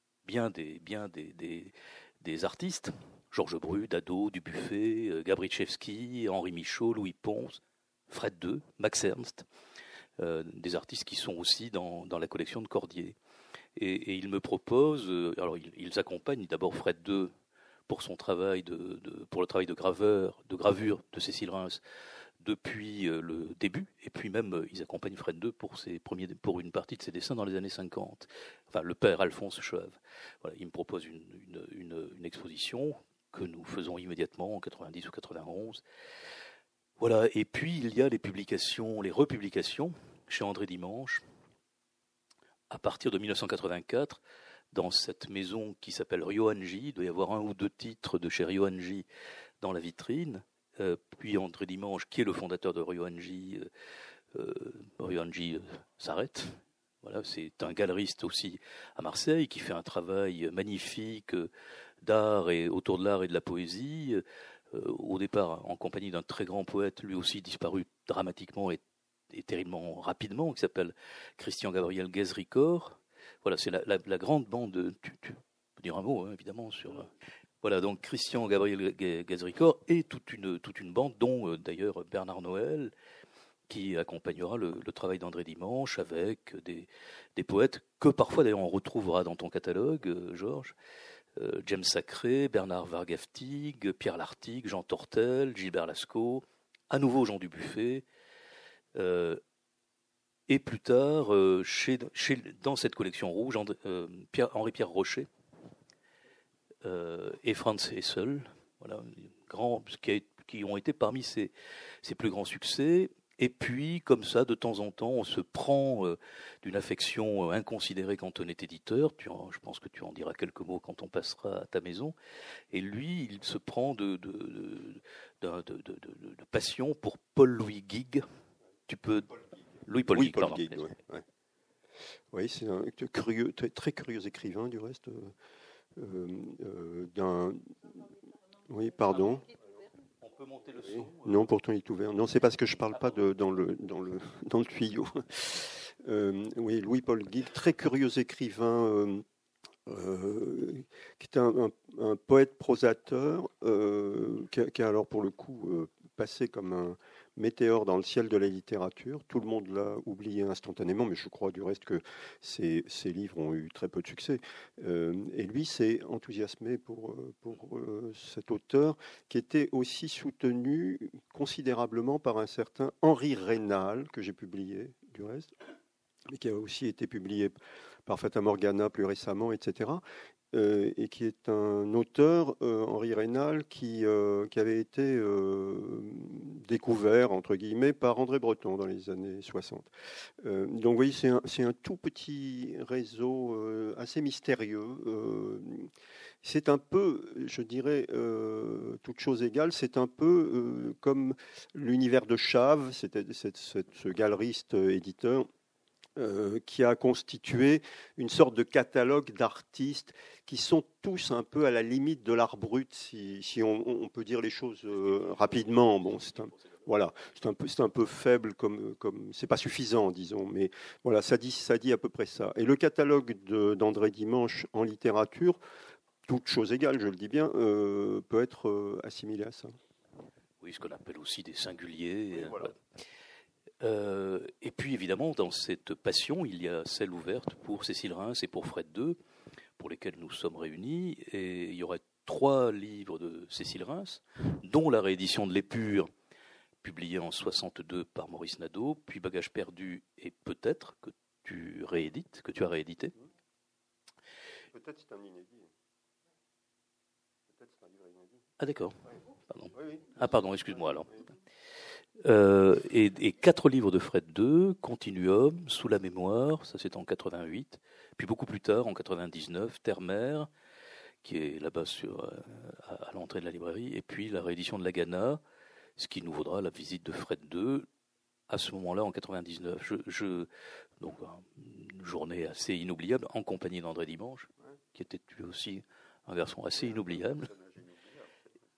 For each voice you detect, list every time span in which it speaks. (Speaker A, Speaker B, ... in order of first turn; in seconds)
Speaker A: 0.2-9.4, 10.2-13.1, 13.8-17.3, 17.9-21.8, 22.4-35.8, 37.0-41.2, 42.7-44.2, 44.7-49.0, 49.6-53.7, 54.3-61.5, 62.0-77.1, 77.6-82.9, 83.7-90.7, 91.3-98.0, 98.9-99.4, 100.5-105.3, 106.8-122.1, 122.7-128.2, 128.9-129.3, 129.8-130.9, 140.2-141.5, 230.6-232.7, 233.8-239.2, 239.8-246.1, 246.8-253.1, 258.6-261.3, 262.2-270.5, 271.2-275.4, 276.0-277.9, 278.5-280.5, 281.0-287.5
Speaker B: 130.1-131.2, 132.3-135.3, 135.9-138.0, 138.6-139.5, 140.8-149.2, 149.8-175.5, 176.3-195.9, 196.4-205.5, 206.2-225.6, 226.2-229.7, 232.3-232.7, 254.7-255.7, 257.5-258.4, 259.7-261.1, 286.8-288.3